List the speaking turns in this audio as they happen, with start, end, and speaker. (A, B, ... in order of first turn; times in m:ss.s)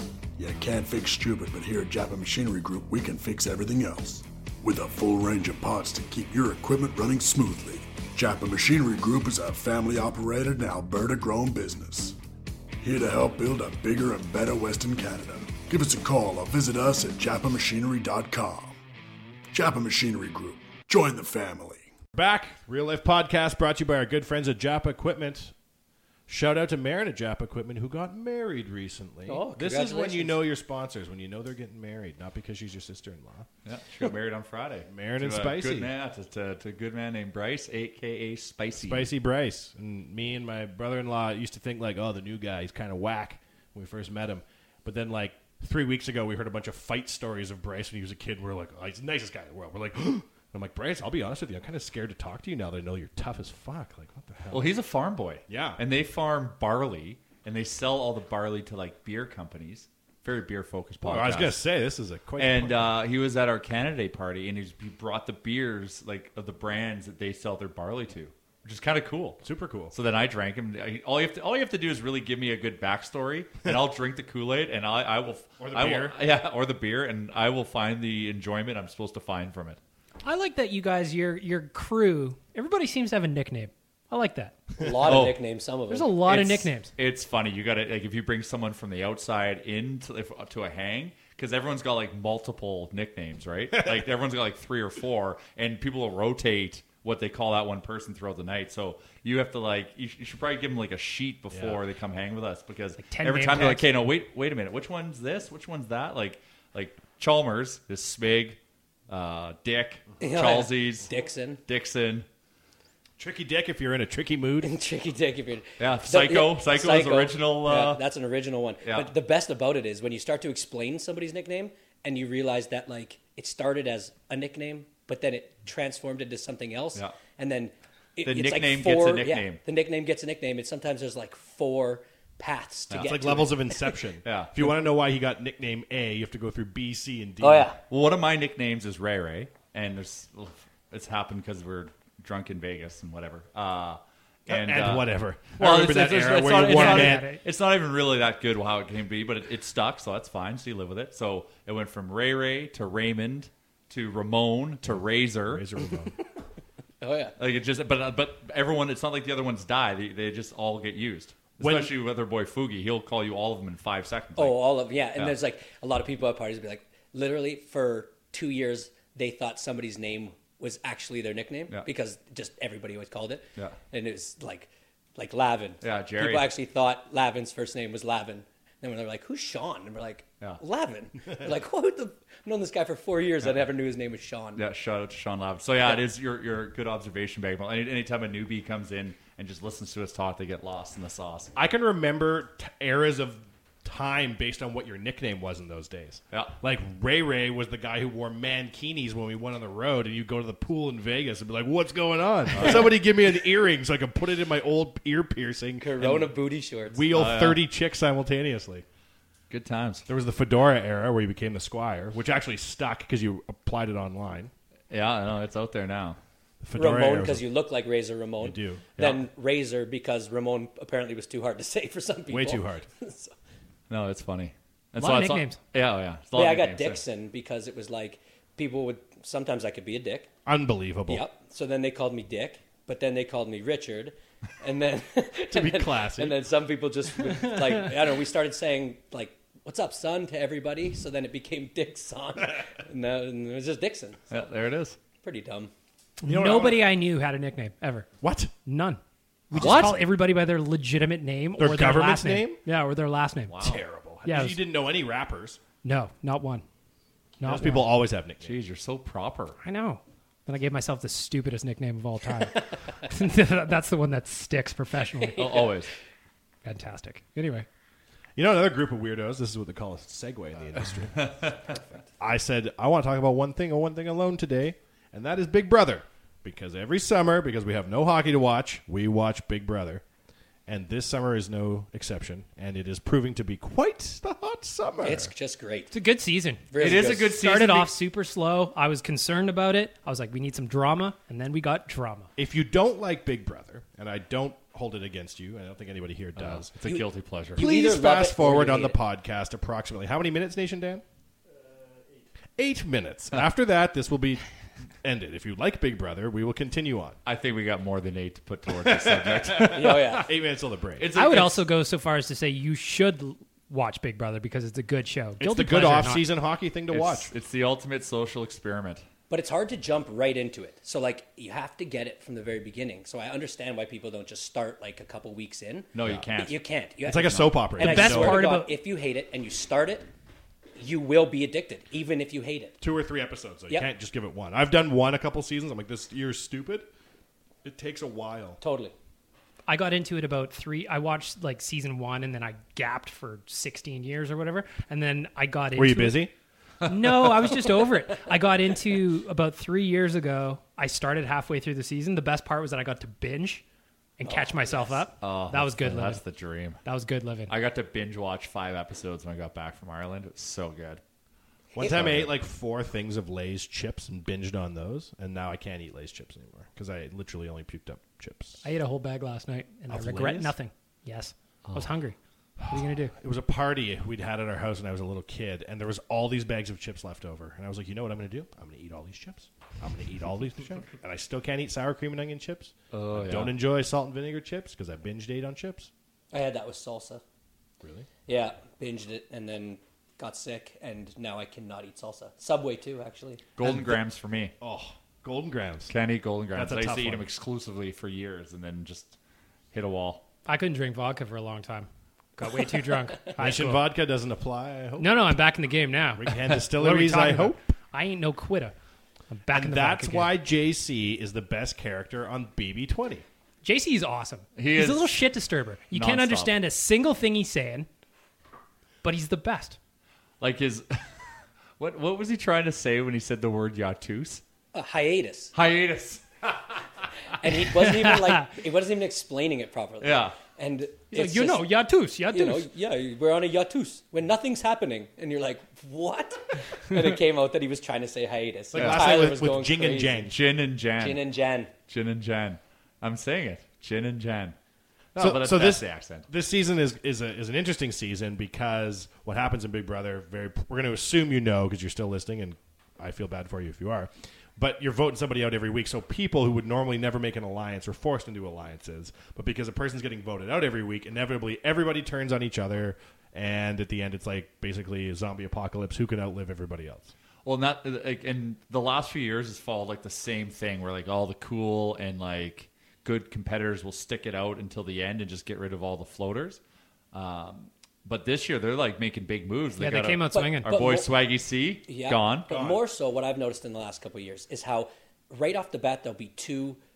0:00.4-0:12.2 A
0:12.8-0:18.8 A
0:19.5-0:21.9 A
0:22.1-0:25.5 B
0:26.3-0:33.5 B
0:29.3-0:30.4 C
0:33.6-0:39.1 D
0:34.9-0:35.9 B
0:38.8-0:54.7 B
0:54.5-1:01.6 D
0:55.5-0:55.8 B
1:01.0-1:02.9 B
1:02.4-1:19.8 D
1:09.4-1:09.9 B
1:15.6-1:16.2 B
1:20.2-1:24.7 E
1:24.8-1:26.1 C
1:25.0-1:25.3 D
1:25.9-1:26.9 E
1:26.2-1:48.6 D
1:41.5-1:41.8 B
1:43.0-1:43.9 E
1:49.1-1:51.1 D
1:50.2-1:51.6 C
1:51.6-1:52.2 D
1:53.2-1:54.7 B
1:54.6-2:14.0 C
1:55.8-1:58.0 D
1:58.8-1:59.1 D
2:08.2-2:09.6 D
2:12.9-2:13.2 D
2:12.9-2:17.7 B
2:14.2-2:14.5 D
2:17.4-2:17.8 C
2:17.9-2:35.6 D
2:24.5-2:27.3 B
2:26.6-2:27.4 E
2:34.8-2:36.1 B
2:37.0-2:37.3 C
2:37.4-2:44.6 D
2:41.6-2:41.9 B
2:44.4-3:04.6 C
2:55.8-2:56.5 D
3:04.6-3:11.5 D
3:11.6-3:26.3 B
3:22.5-3:22.9 D
3:25.8-3:27.0 C
3:26.9-3:28.8 B
3:27.1-3:27.6 D
3:29.5-3:30.0 D
3:30.1-3:34.5 B
3:34.9-3:36.2 D
3:36.6-3:37.4 B
3:36.7-3:43.3 C
3:38.4-3:39.2 B
3:42.3-3:42.9 B
3:43.9-3:47.0 D
3:45.0-3:45.6 E
3:46.3-3:50.3 C
3:50.4-3:51.2 B
3:51.1-4:04.2 C
3:55.5-3:56.4 B
4:04.3-4:05.0 D
4:05.2-4:05.7 C
4:06.2-4:08.1 E
4:06.2-4:06.9 B
4:08.2-4:08.5 B
4:08.6-4:09.0 E
4:09.5-4:13.6 E
4:09.5-4:09.8 B
4:09.5-4:10.0 D
4:11.6-4:12.6 B
4:13.5-4:13.8 D
4:13.6-4:15.6 B
4:14.2-4:14.6 E
4:15.8-4:16.6 E
4:17.4-4:17.9 E
4:17.4-4:18.6 B
4:18.4-4:19.6 D
4:19.6-4:25.5 E
4:25.3-4:25.7 C
4:25.4-4:25.9 D
4:26.6-4:27.6 E
4:28.4-4:31.4 B
4:31.2-4:31.8 D
4:32.2-4:40.0 B
4:40.7-4:45.3 B
4:45.0-4:45.9 C
4:45.9-4:52.3 E
4:46.7-4:47.4 C
4:46.8-4:47.9 D
4:52.4-4:56.7 B
4:56.4-4:57.6 D
4:57.6-4:59.0 C
4:57.6-5:01.0 B
5:02.6-5:04.4 B
5:05.0-5:07.2 B
5:07.2-5:10.1 D
5:08.7-5:11.0 B
5:09.7-5:10.3 C
5:11.0-5:11.6 D
5:11.1-5:16.3 E
5:15.4-5:17.3 B
5:16.9-5:19.0 D
5:19.3-5:30.1 C
5:25.9-5:26.6 D
5:27.0-5:28.4 B
5:27.2-5:27.5 D
5:27.8-5:28.8 E
5:30.8-5:32.8 C
5:32.8-5:36.9 B
5:37.6-5:38.6 B
5:38.6-5:38.9 C
5:39.7-5:46.3 E
5:45.7-5:46.3 B
5:46.8-5:53.6 E
5:54.2-5:56.2 E
5:54.2-5:55.0 C
5:55.2-5:56.8 D
5:56.8-5:57.5 E
5:57.5-6:01.0 D
6:01.8-6:08.6 B
6:01.8-6:02.3 D
6:08.6-6:12.2 E
6:09.9-6:10.5 B
6:12.7-6:13.1 E
6:12.7-6:25.9 B
6:22.9-6:23.6 D
6:26.3-6:27.2 C
6:27.8-6:28.1 B
6:28.3-6:33.4 C
6:33.6-6:34.5 D
6:33.6-6:34.0 B
6:34.6-6:35.9 B
6:35.9-6:39.2 D
6:36.5-6:37.3 B
6:39.7-6:40.2 D
6:40.4-6:43.8 E
6:43.4-6:45.3 B
6:45.0-6:48.7 E
6:46.2-6:47.6 B
6:49.3-6:50.3 E
6:49.5-6:53.2 B
6:53.6-6:57.9 E
6:54.6-6:55.2 D
6:55.9-6:56.6 D
6:59.0-6:59.8 E
7:00.4-7:01.2 D
7:01.8-7:04.4 D
7:04.7-7:05.5 C
7:05.5-7:06.8 D
7:07.4-7:11.7 C
7:08.1-7:08.4 E
7:10.0-7:10.4 D
7:11.1-7:12.7 E
7:12.3-7:20.3 C
7:18.7-7:20.4 B
7:20.3-7:21.2 D
7:21.0-7:21.7 C
7:21.9-7:24.6 D
7:25.1-7:26.3 D
7:25.2-7:47.1 B
7:47.4-7:56.6 D
7:57.1-8:02.5 D
7:59.8-8:00.7 E
8:00.3-8:01.1 C
8:01.9-8:06.8 C
8:02.5-8:02.8 B